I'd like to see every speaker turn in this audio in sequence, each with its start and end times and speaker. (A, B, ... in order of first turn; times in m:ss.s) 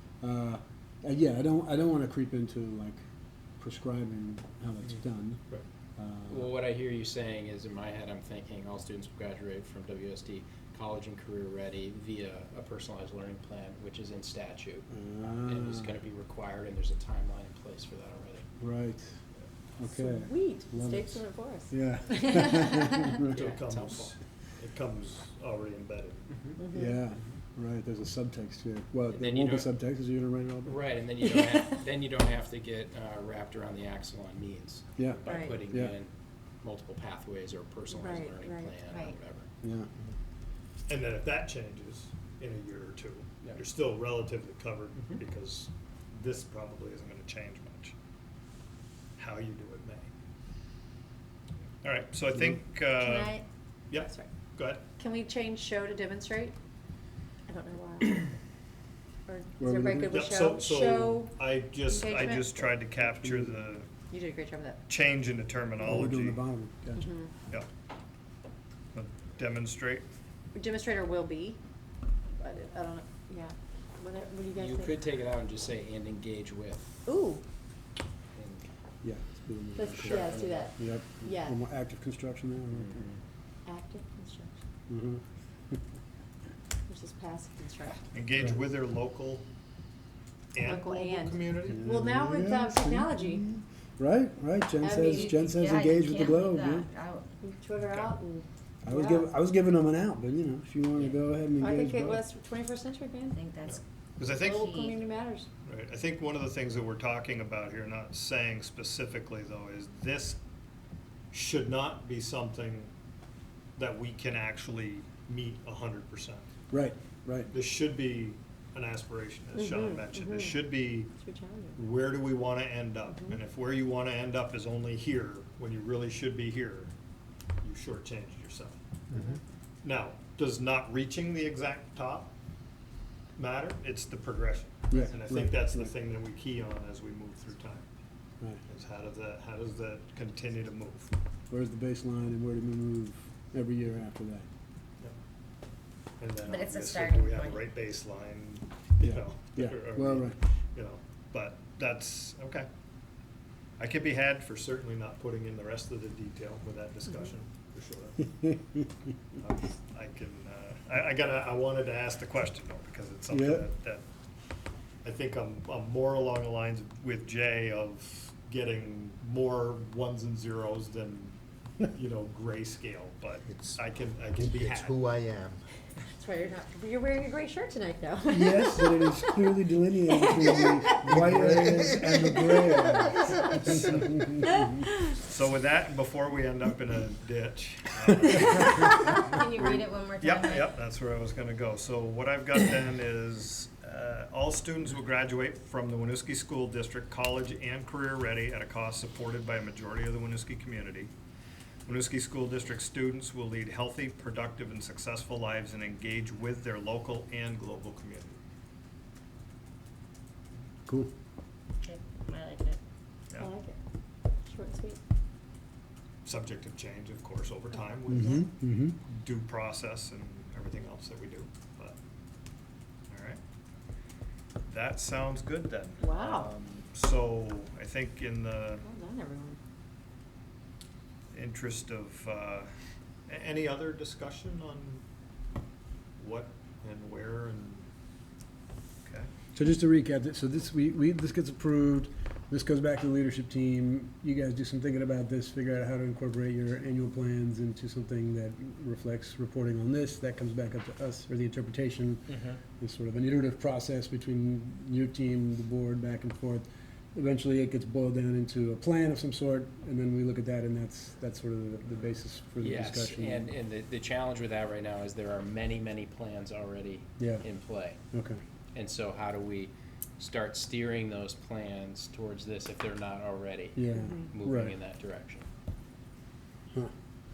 0:00.2-0:03.0 A
0:03.6-0:05.4 A
0:06.0-0:06.5 A
0:06.3-0:14.9 B
0:14.9-0:15.9 A
0:15.4-0:18.4 B
0:18.6-0:19.2 A
0:19.8-0:23.3 A
0:20.0-0:23.1 C
0:23.3-0:24.1 B
0:23.3-0:26.6 D
0:26.6-0:26.9 C
0:26.7-0:30.8 A
0:29.1-0:29.7 B
0:30.6-0:39.5 B
0:35.0-0:35.9 A
0:35.2-0:35.6 C
0:37.9-0:39.1 C
0:39.6-0:39.9 A
0:40.9-0:47.9 D
0:49.2-0:50.1 D
0:51.8-0:53.3 D
0:53.0-0:53.4 E
0:53.9-0:54.8 D
0:54.0-0:54.3 C
0:55.0-0:56.5 C
0:57.5-0:58.3 C
0:59.3-1:02.7 C
0:59.6-1:00.2 A
1:00.1-1:03.9 D
1:03.0-1:03.6 A
1:04.1-1:04.8 C
1:04.9-1:06.4 D
1:05.8-1:07.1 A
1:07.0-1:07.3 C
1:08.9-1:10.0 D
1:10.5-1:11.6 C
1:12.4-1:15.0 C
1:14.5-1:17.0 B
1:17.0-1:17.4 C
1:18.4-1:18.7 B
1:19.0-1:23.1 A
1:19.8-1:21.6 C
1:19.8-1:20.8 B
1:22.8-1:23.2 B
1:23.6-1:24.6 C
1:24.9-1:25.2 A
1:26.9-1:28.1 C
1:28.1-1:29.4 D
1:30.5-1:31.8 D
1:30.6-1:33.4 C
1:31.7-1:36.9 A
1:34.8-1:35.4 C
1:35.1-1:37.4 E
1:37.4-1:39.3 C
1:37.8-1:38.1 D
1:38.8-1:42.2 A
1:41.6-1:43.4 C
1:43.3-1:45.0 E
1:43.6-1:44.7 D
1:44.4-1:45.5 C
1:45.6-1:50.4 D
1:51.3-1:52.9 D
1:53.8-1:56.5 D
1:56.7-1:57.5 A
1:57.5-2:01.1 D
1:59.5-2:00.6 C
2:01.2-2:01.8 C
2:01.8-2:06.9 D
2:07.6-2:08.8 D
2:09.8-2:12.3 D
2:13.4-2:17.9 D
2:14.9-2:15.9 A
2:18.7-2:21.1 D
2:21.5-2:24.5 A
2:26.2-2:32.7 D
2:26.4-2:27.7 E
2:29.0-2:30.4 A
2:33.8-2:38.3 D
2:39.4-2:44.0 D
2:43.3-2:43.6 A
2:45.0-2:55.0 D
2:53.5-2:53.8 F
2:54.4-2:55.6 F
2:56.1-2:59.4 C
2:58.3-3:03.8 A
3:00.4-3:00.9 C
3:01.0-3:01.7 D
3:01.2-3:02.0 F
3:03.5-3:04.2 D
3:05.1-3:21.1 D
3:08.7-3:10.7 E
3:21.8-3:28.4 D
3:31.8-3:32.8 E
3:33.4-3:33.8 C
3:34.4-3:35.0 C
3:36.2-3:38.5 D
3:38.1-3:39.0 A
3:39.0-3:42.0 D
3:43.1-3:43.4 D
3:44.6-3:48.8 D
3:46.0-3:46.5 C
3:48.8-3:49.6 C
3:51.3-3:52.7 D
3:53.3-3:55.0 D
3:56.2-3:57.9 D
3:59.0-3:59.3 D
3:59.5-4:23.5 A
4:22.6-4:28.0 B
4:27.2-4:27.4 A
4:28.1-4:28.4 A
4:28.7-4:35.4 B
4:33.7-4:34.7 A
4:33.9-4:34.3 C